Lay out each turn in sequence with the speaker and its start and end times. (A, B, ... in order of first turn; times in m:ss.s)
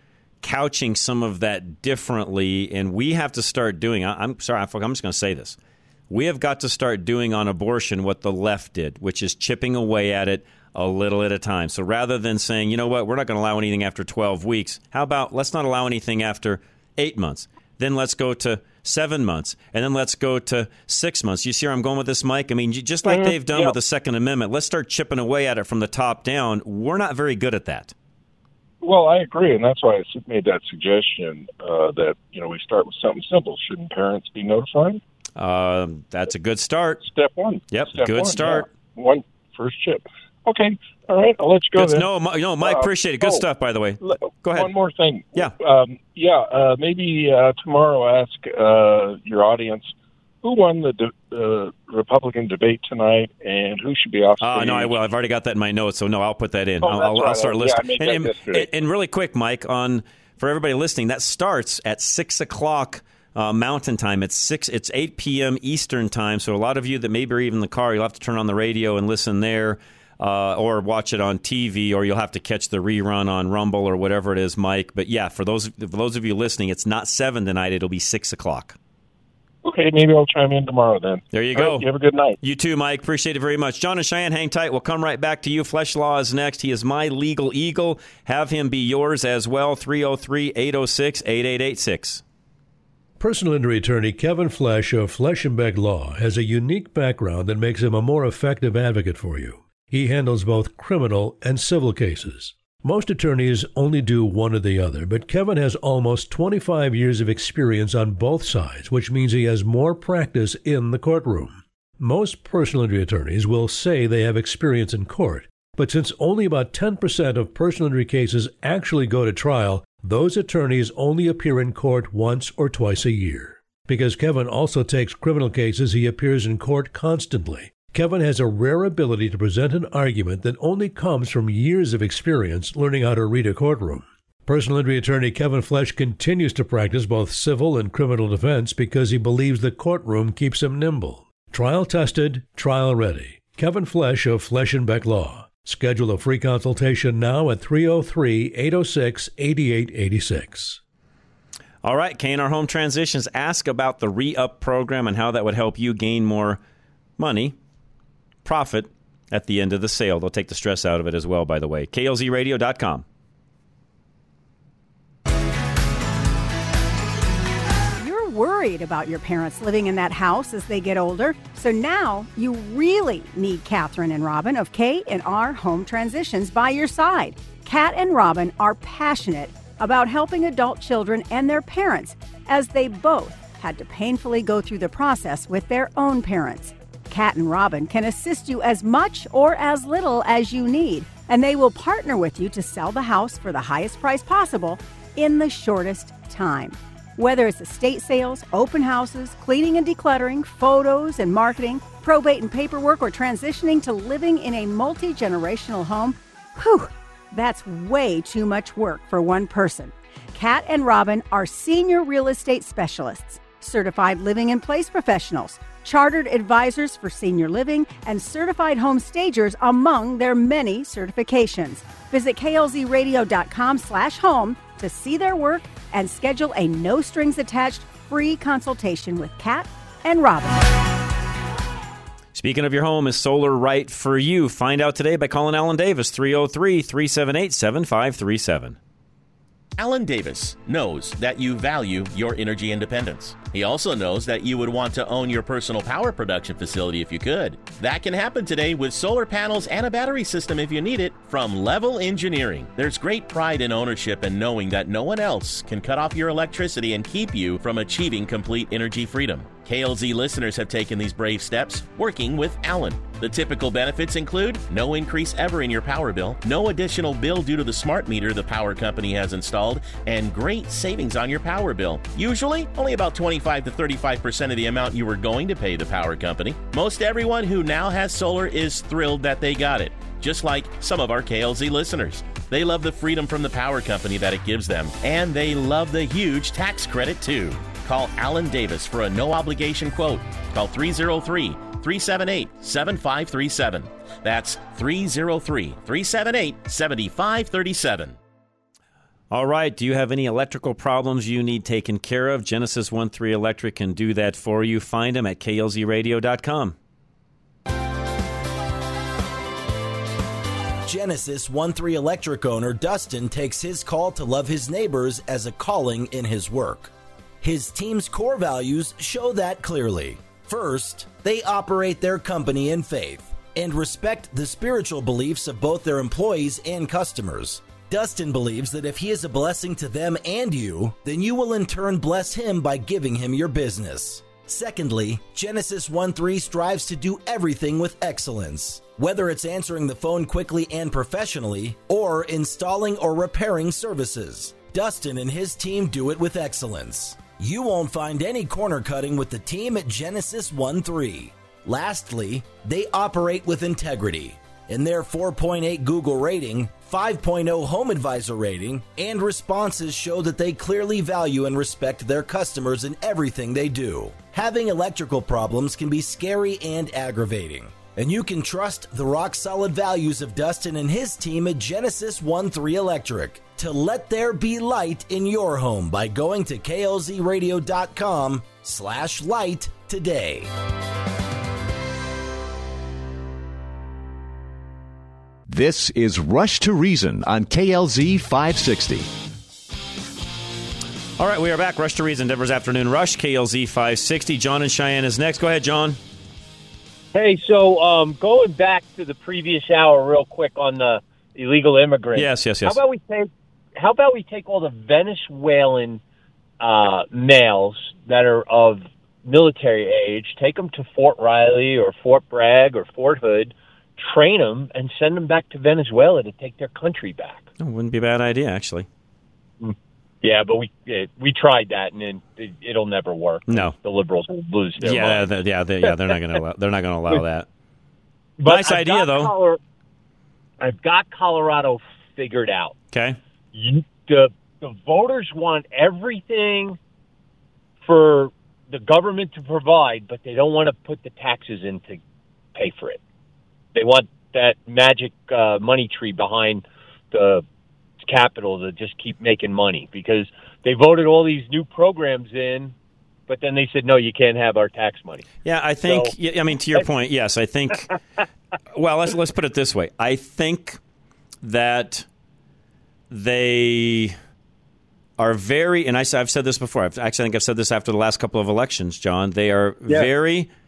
0:00.4-0:05.6 A
0:06.1-0:27.9 A
0:23.1-0:23.8 B
0:28.8-0:35.0 B
0:35.4-0:37.0 A
0:37.0-0:42.1 B
0:37.7-0:38.7 A
0:41.8-0:44.7 A
0:42.6-0:43.4 B
0:44.0-0:49.9 B
0:50.4-0:55.0 B
0:54.4-1:18.8 A
0:56.8-0:58.7 B
1:19.6-1:22.4 B
1:21.3-1:21.9 A
1:22.4-1:32.2 A
1:33.2-2:30.8 C
2:31.8-2:36.6 A
2:37.2-2:37.6 A
2:38.4-2:43.0 A
2:48.0-3:50.7 D
3:52.3-3:58.8 A
3:59.8-4:58.2 E
4:59.3-5:06.8 A
5:10.8-6:20.5 F
6:25.5-6:29.1 G
6:31.2-6:36.0 A
6:37.1-6:46.0 H
6:42.2-6:42.8 A
6:46.6-6:57.4 H
6:57.6-6:58.9 A
6:59.6-7:05.3 H
7:03.5-7:03.7 A
7:04.8-7:07.5 A
7:08.4-7:09.6 H
7:08.5-7:09.3 A
7:10.6-7:12.8 H
7:12.9-7:13.2 A
7:13.5-7:16.8 H
7:17.8-7:22.0 H
7:22.6-7:23.0 H
7:23.8-7:27.4 H
7:28.0-7:32.8 H
7:33.3-7:35.3 H
7:35.4-7:37.9 A
7:35.9-7:36.1 H
7:38.7-7:40.8 A
7:41.4-7:42.1 A
7:43.1-7:44.2 A
7:45.2-7:50.5 A